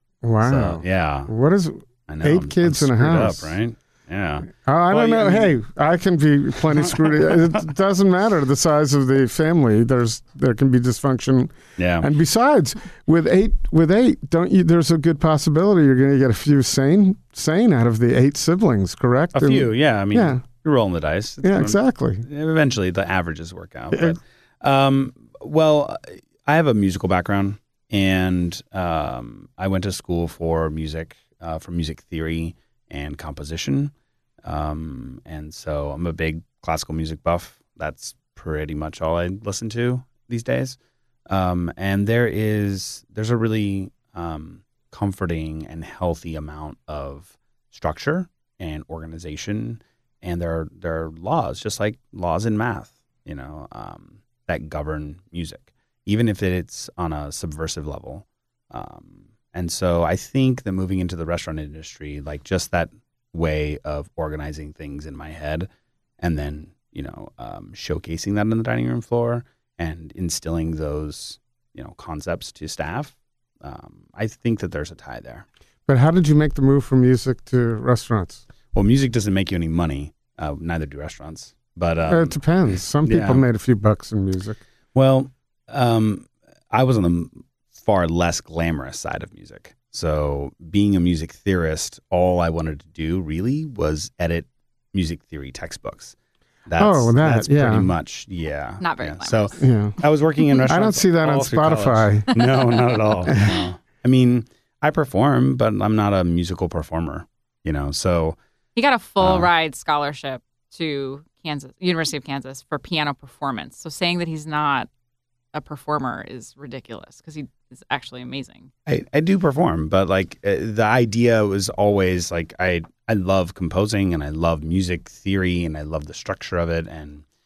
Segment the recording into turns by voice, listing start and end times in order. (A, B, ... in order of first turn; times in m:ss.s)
0:00.2-0:03.6 A
0:00.4-0:01.3 B
0:02.1-0:05.5 B
0:04.5-0:20.4 A
0:11.8-0:12.1 B
0:19.3-0:33.9 B
0:21.4-0:22.2 A
0:23.9-0:24.2 A
0:34.4-1:15.4 B
1:15.9-1:18.4 A
1:18.7-1:22.4 B
1:22.1-1:24.6 A
1:23.0-1:23.4 B
1:24.9-1:36.1 B
1:36.7-1:48.4 B
1:36.8-1:37.9 A
1:38.8-1:39.6 C
1:39.6-1:40.0 A
1:40.7-1:42.3 A
1:43.3-1:43.6 A
1:48.7-1:54.9 C
1:49.2-1:49.5 B
1:55.5-1:58.7 C
1:58.9-2:07.2 B